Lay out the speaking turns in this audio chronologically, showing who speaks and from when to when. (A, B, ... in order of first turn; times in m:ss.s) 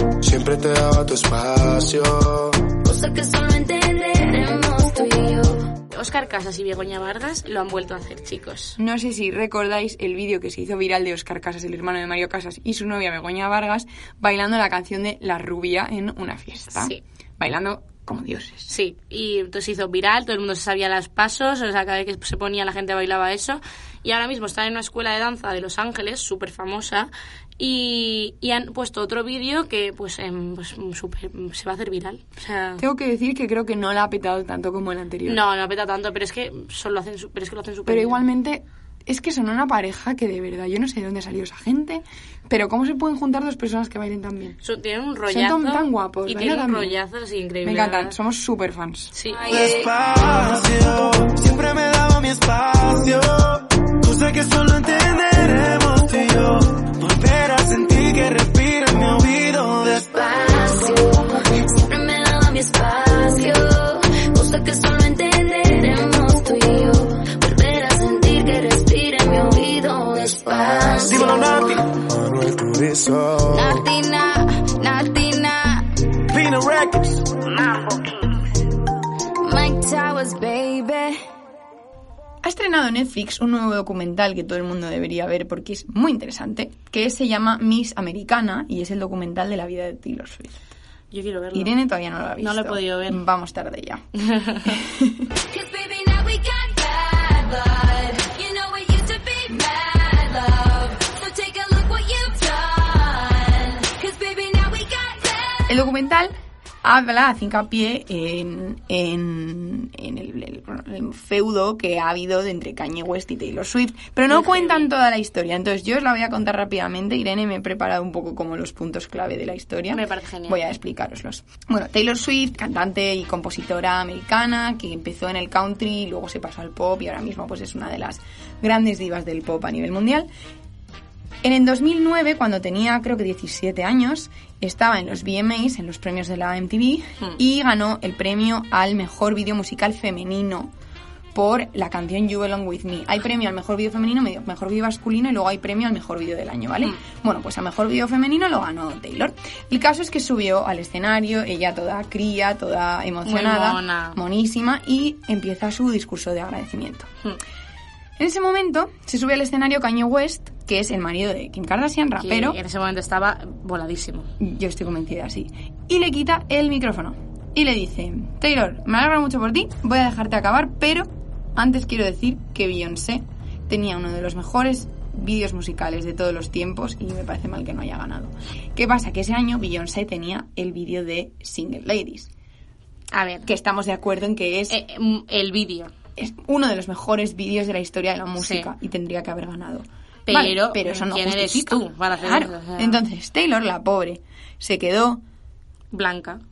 0:00.2-0:02.7 A
0:02.8-0:05.7 B
0:05.9-0:08.8 C
0:08.8-0:18.7 D
0:16.7-0:17.0 C
0:18.7-0:32.8 C
0:32.8-0:35.4 D
0:35.2-0:38.2 C
0:37.8-0:44.6 D
0:44.6-0:48.1 C
0:45.3-0:47.0 D
0:47.6-0:49.1 D
0:49.1-0:49.5 C
0:49.4-0:49.9 B
0:49.5-1:00.1 E
0:59.8-1:11.6 B
1:10.5-1:11.2 A
1:11.1-1:11.9 E
1:12.1-1:13.8 A
1:13.5-1:15.9 B
1:16.3-1:17.3 E
1:17.4-1:18.5 B
1:19.4-1:21.2 B
1:22.4-1:30.6 D
1:31.1-1:31.7 C
1:31.5-1:34.0 D
1:32.4-1:33.2 C
1:34.2-1:34.7 C
1:34.6-1:35.3 D
1:35.5-1:45.7 B
1:45.7-2:10.3 D
1:54.3-1:54.9 C
1:59.9-2:00.6 C
2:11.4-2:20.7 D
2:21.3-2:37.1 D
2:33.2-2:34.2 C
2:38.2-2:42.6 D
2:42.2-2:44.3 C
2:44.4-3:02.3 D
3:03.1-3:03.5 C
3:03.4-3:04.8 D
3:04.7-3:05.9 C
3:06.2-3:15.2 D
3:08.4-3:08.7 C
3:10.3-3:13.0 C
3:15.9-3:16.4 C